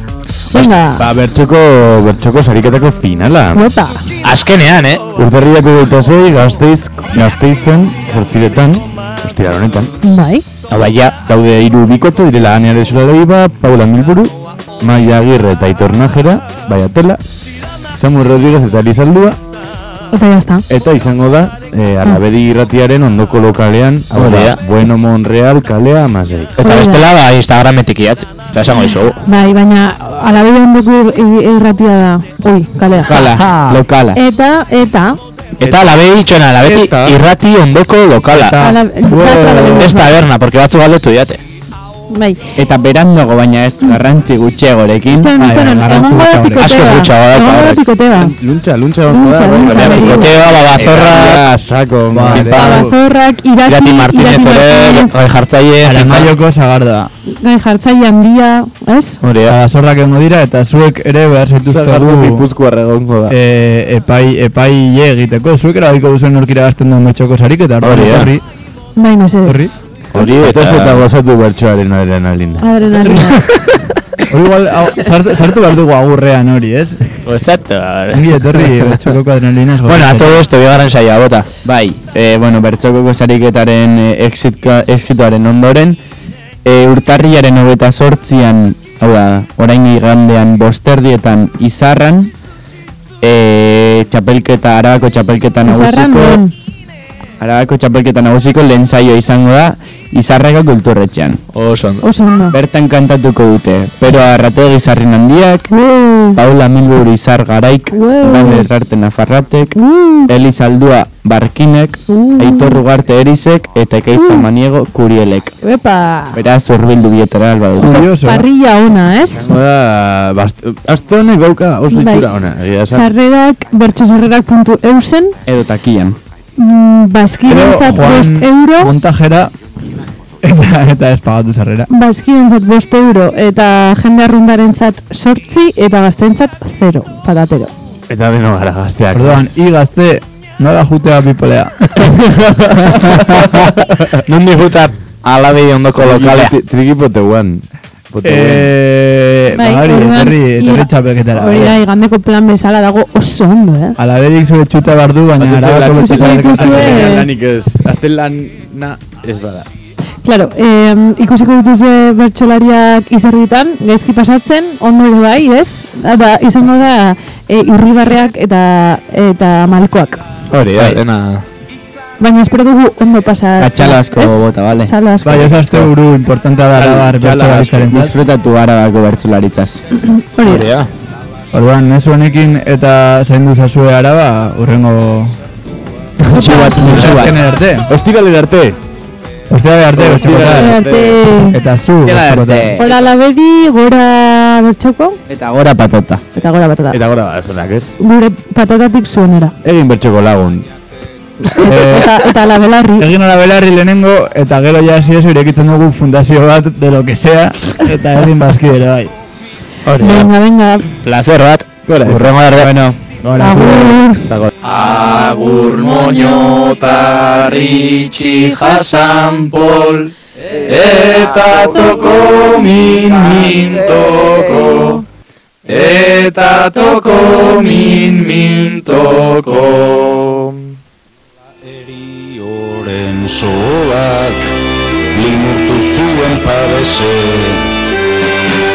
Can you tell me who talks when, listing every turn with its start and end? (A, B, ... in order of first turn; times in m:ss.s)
0:00.5-0:01.0 A
0:01.0-0:03.6 B
0:03.5-0:04.0 A
0:04.2-0:05.0 C
0:05.2-0:09.9 B
0:10.0-0:10.4 A
0:10.7-0:11.2 C
0:11.2-0:17.2 B
0:18.0-0:19.4 B
0:20.1-0:20.6 A
0:20.7-0:26.5 B
0:24.1-0:24.6 C
0:26.6-0:27.0 A
0:26.6-0:29.2 C
0:29.2-0:33.1 A
0:33.1-0:34.2 D
0:33.2-0:33.8 E
0:34.1-0:35.2 A
0:35.6-0:38.6 C
0:36.7-0:37.1 E
0:38.3-0:40.0 E
0:38.6-0:40.1 A
0:39.8-0:41.4 C
0:42.1-0:42.4 A
0:42.6-0:45.3 D
0:45.1-0:48.3 A
0:45.3-0:46.8 E
0:46.6-0:47.8 C
0:48.2-0:52.8 B
0:49.1-0:50.3 A
0:49.6-0:51.4 C
0:52.1-0:52.9 E
0:52.3-0:55.1 A
0:53.6-0:56.3 C
0:55.8-0:57.1 E
0:57.4-0:59.2 A
0:59.2-0:59.6 C
0:59.5-1:02.4 E
1:01.6-1:03.3 B
1:03.3-1:08.4 E
1:07.8-1:08.3 C
1:09.0-1:09.6 A
1:09.5-1:09.7 E
1:10.1-1:12.7 B
1:10.1-1:11.0 C
1:12.6-1:13.4 A
1:14.3-1:17.0 E
1:17.2-1:19.1 C
1:18.1-1:20.4 E
1:19.8-1:21.7 C
1:21.9-1:26.0 D
1:26.6-1:32.3 D
1:33.2-1:36.4 D
1:35.6-1:36.5 A
1:37.4-1:41.4 D
1:41.5-1:42.0 C
1:42.0-1:42.6 A
1:42.5-1:45.7 D
1:45.7-1:46.4 A
1:46.3-1:49.7 D
1:47.9-1:48.7 A
1:49.8-1:50.3 A
1:50.3-1:55.6 D
1:52.1-1:52.8 A
1:55.6-1:56.4 A
1:56.3-1:58.1 D
1:57.8-1:59.5 A
1:57.8-1:58.4 E
1:59.3-2:03.1 B
2:01.9-2:02.2 A
2:02.9-2:05.4 A
2:05.4-2:06.2 D
2:06.6-2:08.9 A
2:07.5-2:09.5 E
2:10.4-2:11.9 E
2:11.9-2:17.7 A
2:18.1-2:19.6 B
2:19.1-2:23.7 E
2:24.3-2:26.5 C
2:26.0-2:28.7 B
2:28.2-2:31.8 E
2:29.5-2:34.0 A
2:34.0-2:37.1 E
2:35.4-2:39.7 B
2:35.9-2:37.3 A
2:40.2-2:50.2 A
2:50.5-2:51.4 C
2:52.2-2:55.6 A
2:53.6-2:54.9 D
2:55.2-2:58.1 E
2:56.8-2:57.9 B
2:57.9-2:59.8 D
3:00.2-3:00.6 A
3:00.4-3:00.9 C
3:01.5-3:05.3 E
3:06.4-3:07.3 C
3:06.4-3:06.9 A
3:06.4-3:07.9 E
3:07.0-3:07.3 B
3:07.9-3:08.8 B
3:09.5-3:10.7 E
3:10.0-3:11.2 B
3:10.2-3:11.6 A
3:11.5-3:12.8 E
3:12.8-3:15.2 A
3:15.3-3:16.2 D
3:16.4-3:17.0 A
3:16.9-3:17.9 B
3:18.0-3:19.5 A
3:19.6-3:20.6 B
3:21.6-3:23.1 A
3:21.6-3:22.2 E
3:23.0-3:29.1 E
3:29.8-3:30.3 C
3:30.0-3:30.8 A
3:31.0-3:32.7 C
3:31.9-3:32.3 B
3:32.6-3:33.0 D
3:33.2-3:34.0 E
3:33.4-3:34.2 A
3:34.6-3:40.1 F
3:40.7-3:45.0 F
3:45.6-3:50.5 F
3:51.7-3:54.5 G
3:55.1-3:57.6 G